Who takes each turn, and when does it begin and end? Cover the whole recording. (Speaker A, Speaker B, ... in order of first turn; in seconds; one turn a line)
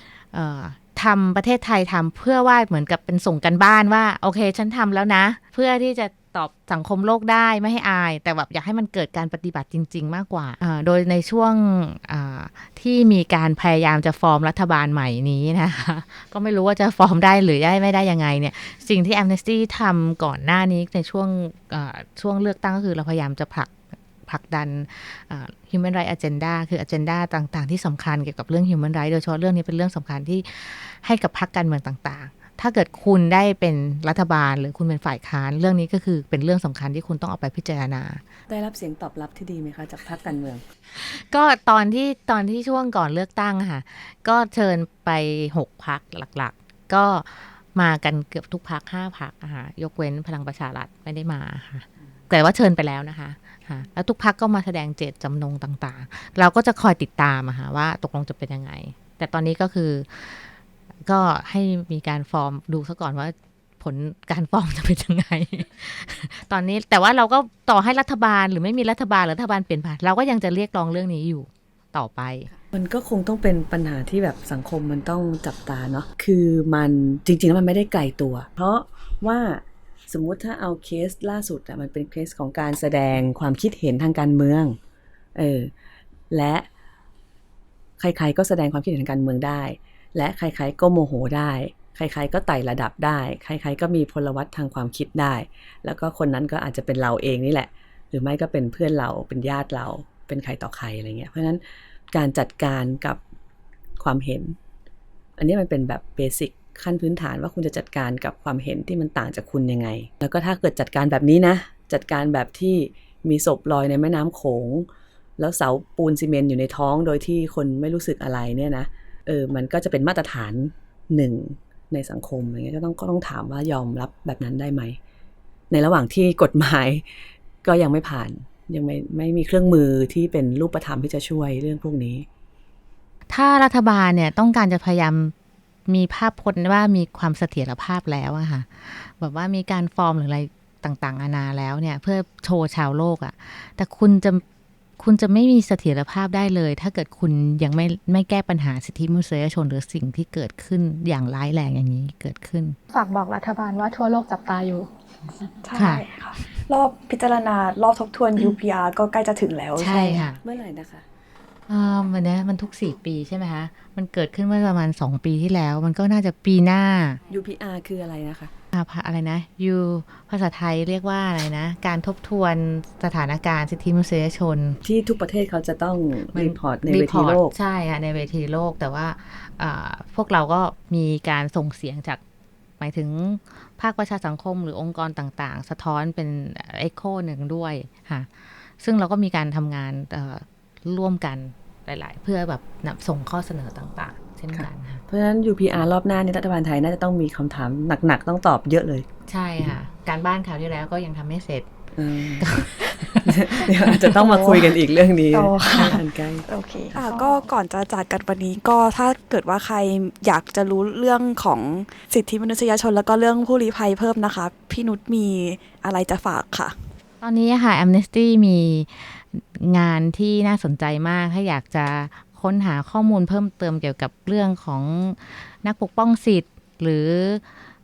Speaker A: 0.2-23.7
Speaker A: 24.2-38.2
Speaker B: 38.5-40.6
Speaker A: 40.9-60.5
Speaker A: 61.1-72.5
Speaker B: 72.7-84.8
Speaker B: 85.3-85.7
Speaker B: 86.3-86.7
Speaker B: 88.0-103.2
Speaker B: 104.0-104.6
Speaker B: 105.4-125.0
Speaker B: 125.7-127.0
Speaker B: 127.6-132.3
Speaker A: 133.3-135.3
Speaker A: 135.9-144.4
Speaker A: 145.0-152.8
Speaker C: 152.9-154.9
Speaker D: 155.6-160.3
Speaker A: 155.7-156.1
Speaker A: 159.8-160.4
Speaker B: 160.4-161.1
Speaker A: 161.7-167.2
Speaker B: 167.3-168.5
Speaker A: 168.7-174.8
Speaker B: 174.8-177.5
Speaker A: 176.3-182.2
Speaker A: 182.8-188.3
Speaker A: 188.8-195.0
Speaker B: 194.5-199.1
Speaker A: 199.3-201.7
Speaker B: 202.0-202.7
Speaker A: 202.4-204.3
Speaker B: 203.2-207.4
Speaker D: 205.3-216.8
Speaker A: 217.2-227.4